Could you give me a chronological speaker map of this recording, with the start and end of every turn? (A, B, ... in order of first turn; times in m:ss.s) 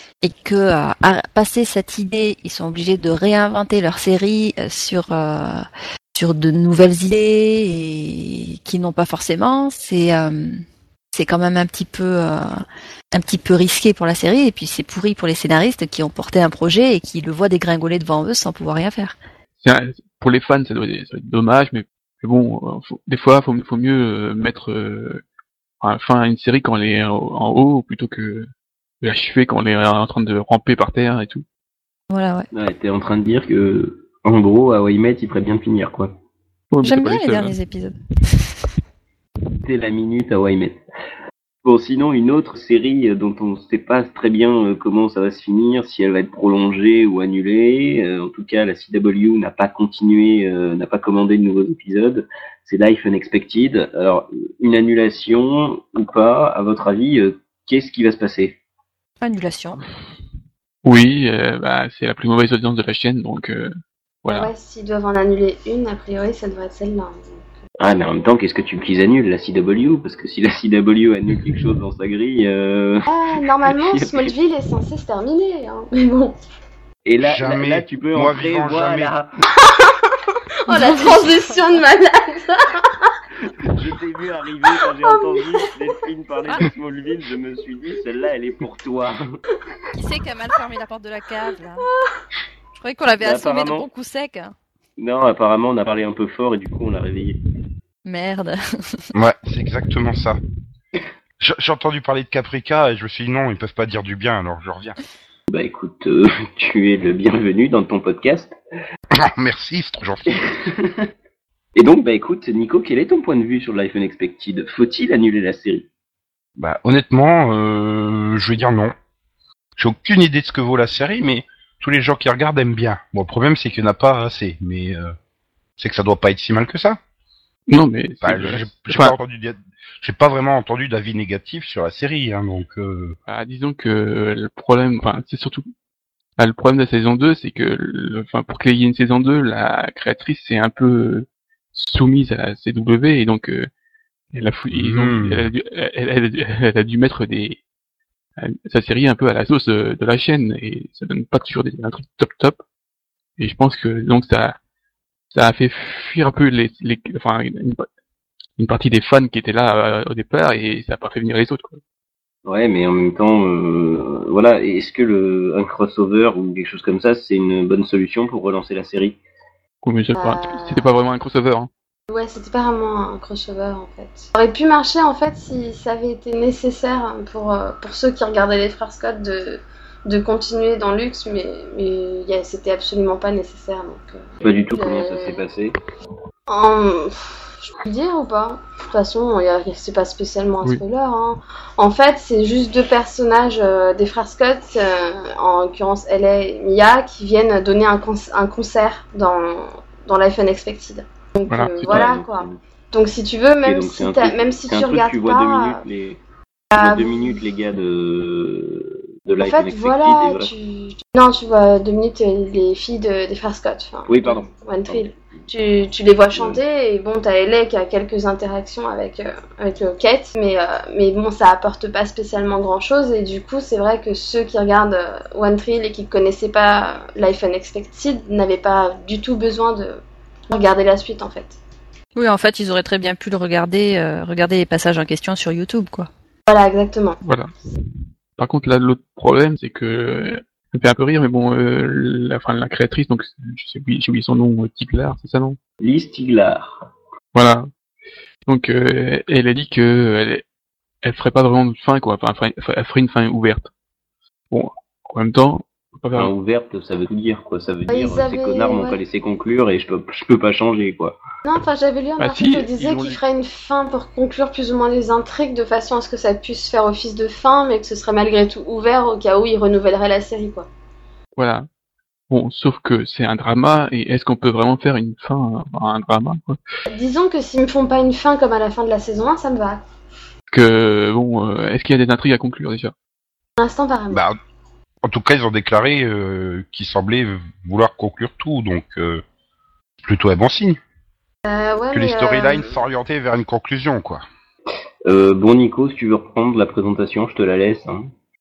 0:00.2-0:19.2 A
0:19.6-0:25.2 B
0:25.8-0:28.5 B
0:29.0-0:31.4 B
0:32.1-0:32.5 A
0:32.5-0:36.1 C
0:36.7-0:37.6 B
0:36.8-0:38.5 A
0:39.6-0:40.8 C
0:41.6-0:58.6 C
0:59.2-0:59.8 A
1:00.8-1:04.5 B
1:04.3-1:07.4 D
1:07.8-1:13.1 C
1:13.1-1:16.4 D
1:13.6-1:14.3 C
1:17.0-1:19.3 C
1:17.2-1:19.1 E
1:19.6-1:23.1 D
1:20.7-1:21.8 A
1:23.5-1:29.4 C
1:29.9-1:31.9 A
1:32.8-1:34.5 A
1:33.2-1:33.9 C
1:35.0-1:37.4 C
1:38.0-1:39.1 A
1:39.1-1:40.4 E
1:41.4-1:45.0 E
1:45.5-1:48.6 C
1:49.1-1:50.5 E
1:50.4-1:51.0 C
1:51.8-1:55.9 C
1:56.6-1:58.9 E
1:59.8-2:05.1 E
2:05.8-2:07.0 E
2:07.7-2:09.2 B
2:08.2-2:13.2 E
2:13.3-2:15.7 B
2:16.4-2:23.7 B
2:24.3-2:27.6 B
2:24.7-2:25.5 E
2:28.4-2:32.6 B
2:33.4-2:34.6 B
2:35.3-2:37.9 B
2:38.6-2:41.8 B
2:42.4-2:49.2 C
2:49.8-2:51.7 B
2:50.1-2:50.9 D
2:52.1-3:05.4 D
3:04.4-3:05.8 C
3:06.5-3:25.8 D
3:21.5-3:22.0 B
3:21.9-3:22.6 C
3:23.6-3:26.2 C
3:26.7-3:27.4 D
3:26.7-3:30.5 C
3:29.4-3:51.6 D
3:34.1-3:35.1 C
3:36.3-3:36.6 C
3:52.2-3:56.1 A
3:56.5-3:57.2 D
3:57.2-3:57.5 B
3:58.4-4:05.6 B
4:05.8-4:06.9 C
4:07.3-4:07.7 B
4:08.5-4:10.4 B
4:11.0-4:13.7 B
4:14.5-4:16.3 B
4:16.1-4:21.2 C
4:17.9-4:19.0 D
4:21.4-4:30.7 D
4:22.2-4:23.2 B
4:31.4-4:31.7 B
4:32.3-4:36.6 B
4:36.9-4:39.8 D
4:40.5-4:42.9 B
4:43.6-4:44.2 D
4:44.1-4:44.4 E
4:45.0-4:49.2 E
4:50.0-4:50.8 E
4:51.4-4:52.7 D
4:51.9-4:54.2 E
4:55.0-4:58.1 C